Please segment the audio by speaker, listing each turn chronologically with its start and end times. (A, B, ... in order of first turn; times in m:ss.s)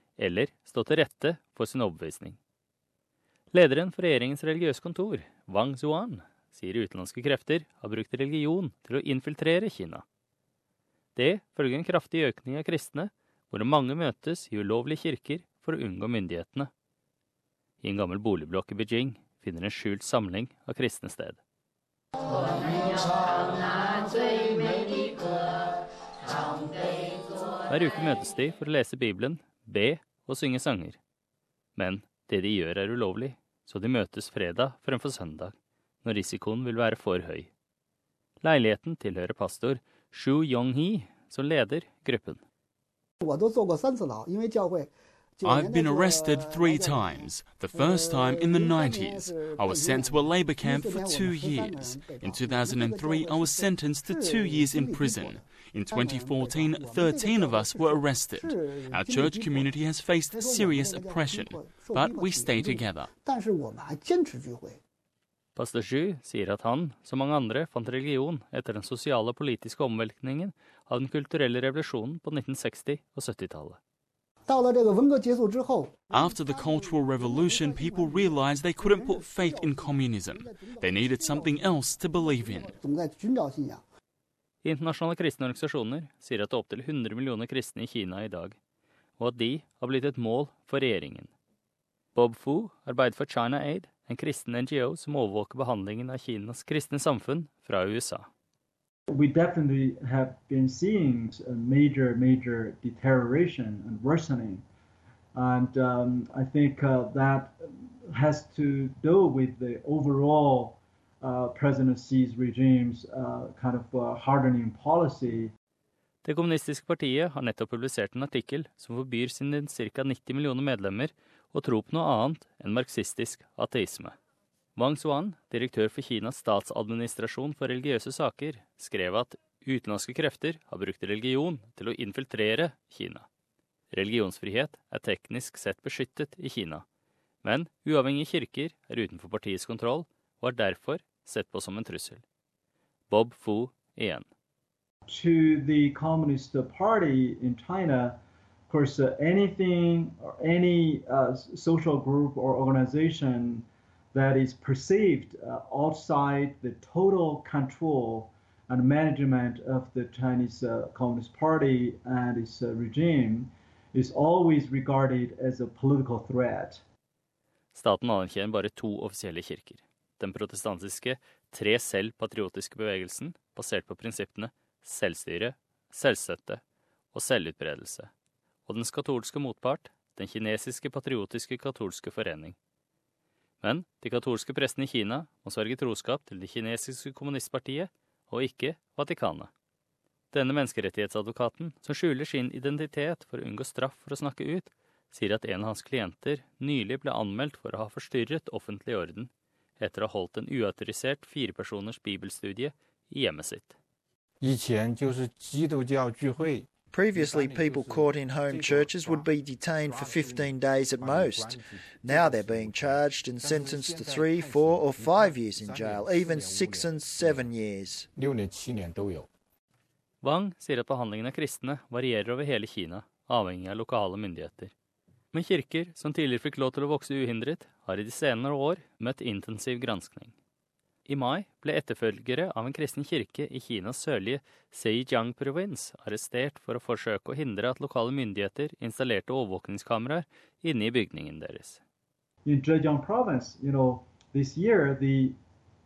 0:00.2-0:02.4 A
0:03.5-0:10.0 A
0:11.1-0:16.7 A
0:17.8-0:21.4 A
0:22.2-0:25.7 B
0:26.2-0:27.4 B
0:27.7-0:31.0 A
0:31.8-0:37.5 A
0:38.4-0:42.4 A
0:43.2-0:59.8 C
0:45.4-1:03.1 D
1:00.3-1:04.8 C
1:05.5-1:13.8 A
1:14.5-1:23.8 C
1:16.1-1:22.7 D
1:24.6-1:28.6 A
1:29.2-1:31.3 A
1:32.1-1:38.3 A
1:39.1-1:44.6 E
1:45.4-1:55.5 E
1:56.2-2:04.1 A
2:04.8-2:13.2 A
2:13.9-2:16.8 A
2:17.4-2:22.2 A
2:23.1-2:24.3 A
2:25.1-2:28.2 E
2:28.7-2:46.8 E
2:47.7-2:56.6 A
2:57.1-2:58.1 A
2:58.7-3:02.6 A
3:03.6-3:09.5 A
3:10.3-3:23.8 A
3:24.4-3:37.5 F
3:26.9-3:38.1 G
3:38.2-3:39.3 F
3:40.2-3:44.7 A
3:45.3-3:50.3 A
3:51.0-4:01.8 A
4:02.4-4:05.4 E